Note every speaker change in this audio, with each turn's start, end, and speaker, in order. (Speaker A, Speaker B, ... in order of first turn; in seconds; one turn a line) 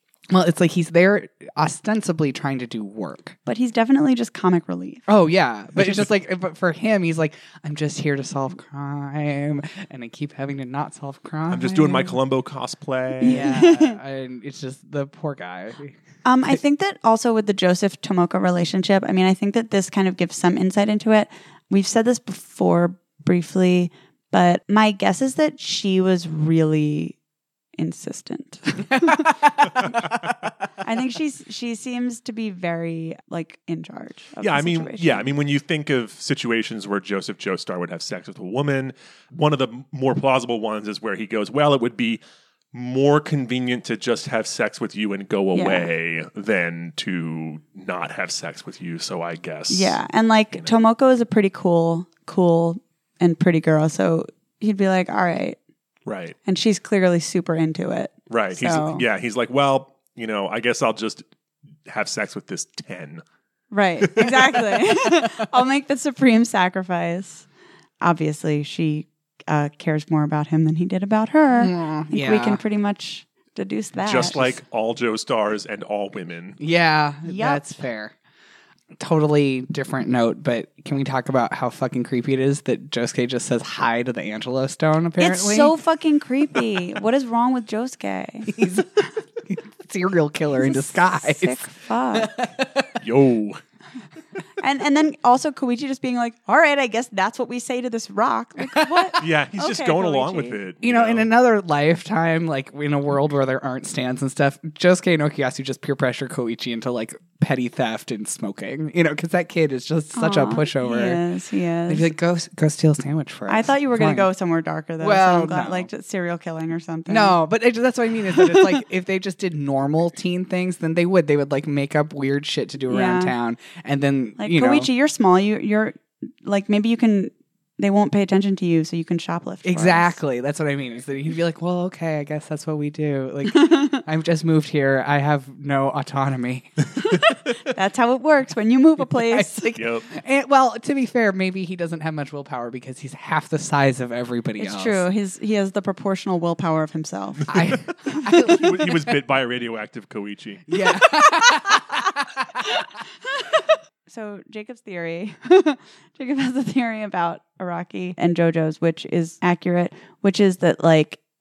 Speaker A: 0.3-3.4
Speaker B: 3.4-5.0
Speaker A: 5.1-12.2
Speaker C: 5.8-6.0
Speaker C: 11.5-13.5
Speaker B: 13.2-14.0
Speaker A: 13.2-16.0
Speaker B: 16.2-27.2
Speaker B: 27.8-30.0
Speaker A: 28.9-30.5
Speaker B: 30.8-35.3
Speaker C: 34.4-42.2
Speaker C: 42.7-50.0
Speaker B: 45.5-45.9
Speaker B: 49.7-55.6
Speaker C: 56.0-56.4
Speaker B: 56.5-59.0
Speaker C: 58.3-61.2
Speaker C: 61.9-63.2
Speaker B: 63.7-67.5
Speaker B: 68.0-74.5
Speaker A: 71.6-72.6
Speaker C: 74.0-76.6
Speaker A: 76.6-78.1
Speaker B: 77.2-77.6
Speaker A: 79.0-85.7
Speaker B: 85.2-88.6
Speaker A: 88.5-93.0
Speaker B: 90.6-92.3
Speaker C: 93.0-93.6
Speaker B: 94.6-100.6
Speaker A: 98.6-99.2
Speaker C: 99.2-101.3
Speaker A: 100.8-111.2
Speaker B: 110.1-112.1
Speaker A: 111.9-114.3
Speaker B: 113.5-117.4
Speaker A: 115.0-115.9
Speaker A: 117.1-124.9
Speaker B: 118.3-118.8
Speaker B: 122.9-123.3
Speaker B: 124.4-130.2
Speaker A: 129.6-136.9
Speaker B: 133.5-134.0
Speaker B: 137.1-139.7
Speaker A: 139.2-145.0
Speaker C: 139.8-140.1
Speaker B: 144.6-147.5
Speaker A: 147.5-149.1
Speaker C: 147.9-150.8
Speaker B: 148.1-148.4
Speaker A: 150.7-152.7
Speaker B: 151.2-151.9
Speaker B: 152.6-161.2